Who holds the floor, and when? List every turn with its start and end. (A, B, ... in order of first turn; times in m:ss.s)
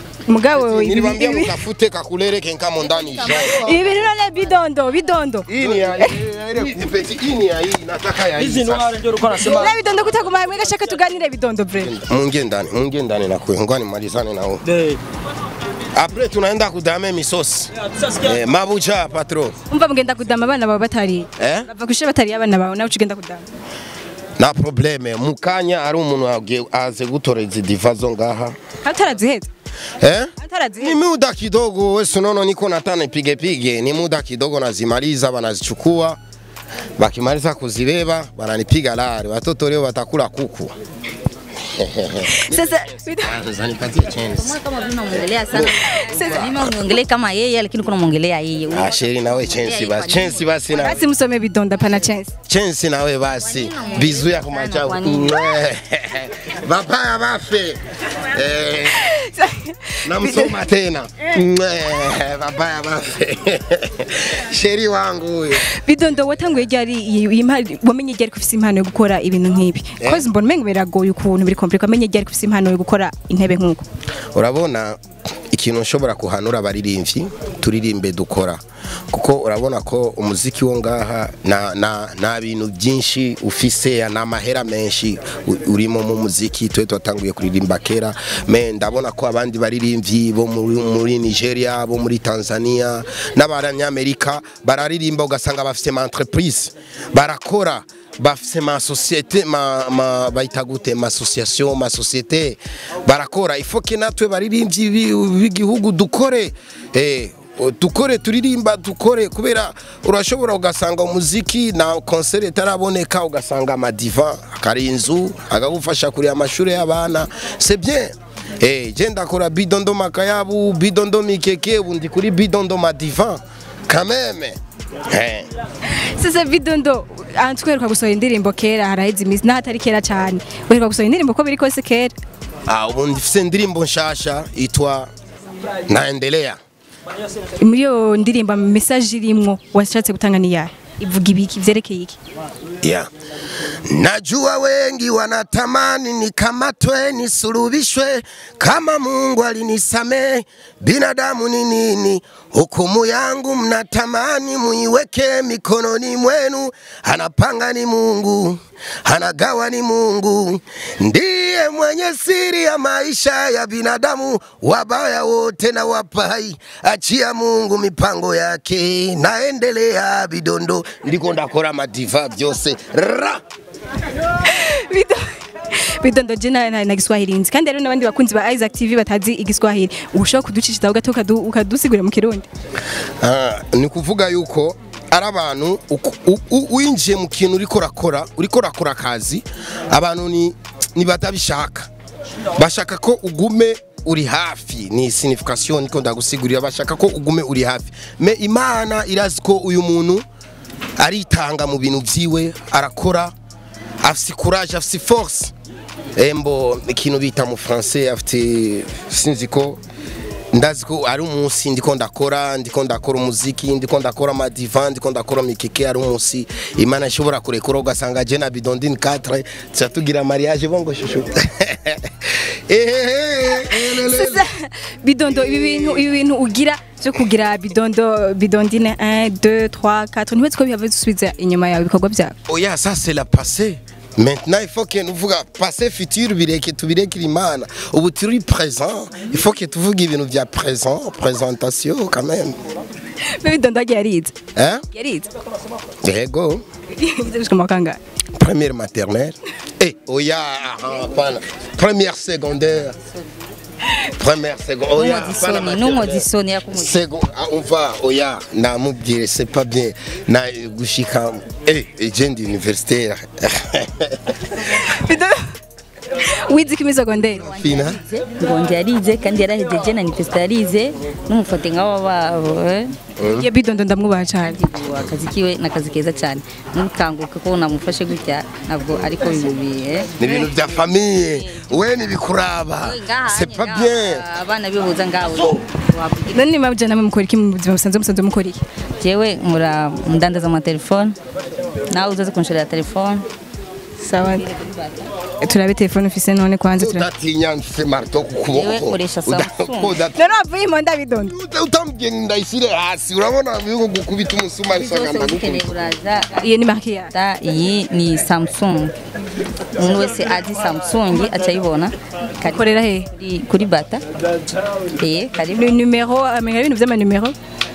0:00.3-0:01.6 A
0:00.5-0:03.7 B
0:02.8-0:04.1 C
0:03.4-0:06.2 A
0:05.5-0:09.0 B
0:08.4-0:09.8 D
0:09.4-0:11.9 A
0:11.8-0:14.6 B
0:14.6-0:15.0 D
0:15.9-0:19.6 B
0:17.8-0:18.4 D
0:19.7-0:23.5 A
0:21.4-0:21.7 B
0:24.4-0:28.6 B
0:28.8-0:29.5 A
0:30.0-0:36.2 B
0:30.4-0:31.0 A
0:37.0-0:40.7 B
0:41.6-0:44.6 B
0:42.3-0:43.4 A
0:44.3-0:50.5 C
0:45.5-0:46.8 B
0:46.0-0:46.7 A
0:48.7-0:51.0 B
0:50.7-0:52.3 A
0:52.5-0:59.2 B
0:53.4-0:55.4 C
0:59.0-1:00.6 A
1:00.0-1:05.7 B
1:05.7-1:13.9 A
1:10.0-1:10.3 B
1:14.3-2:05.5 B
2:05.9-2:12.2 A
2:12.7-2:15.1 B
2:15.9-2:16.6 B
2:17.6-2:22.2 A
2:22.8-2:23.1 B
2:23.8-2:53.4 B
2:54.4-3:02.5 A
3:03.2-3:11.9 B
3:12.5-3:20.2 B
3:21.0-3:23.3 B
3:24.0-3:25.5 B
3:26.2-3:29.8 B
3:30.5-3:44.4 B
3:43.6-3:52.4 A
3:45.3-3:46.0 B
3:52.5-4:02.6 B
4:03.2-4:04.4 A
4:04.6-4:04.8 B
4:04.9-4:05.3 A
4:06.0-4:06.6 B
4:07.0-4:08.0 A
4:08.4-4:13.0 B
4:14.2-4:24.5 B
4:15.0-4:17.0 C
4:24.6-4:25.4 A
4:26.1-4:27.4 A
4:27.4-4:33.0 C
4:27.4-4:28.0 B
4:33.2-4:33.5 B
4:33.3-4:34.6 A
4:34.4-4:40.2 C
4:40.2-4:44.2 B
4:41.3-4:42.0 C
4:42.8-4:46.4 C
4:46.3-4:48.6 A
4:49.0-4:51.2 C
4:51.9-4:53.3 C
4:54.0-4:54.4 A
4:54.2-4:55.1 C
4:55.4-4:57.1 A
4:56.8-5:00.3 B
4:58.5-5:00.0 C
5:00.2-5:01.3 A
5:01.2-5:05.8 B
5:04.7-5:06.4 C
5:06.4-5:07.1 A
5:07.1-5:08.9 C
5:09.7-5:14.0 C
5:12.4-5:13.1 A
5:15.0-5:15.7 C
5:15.6-5:17.4 A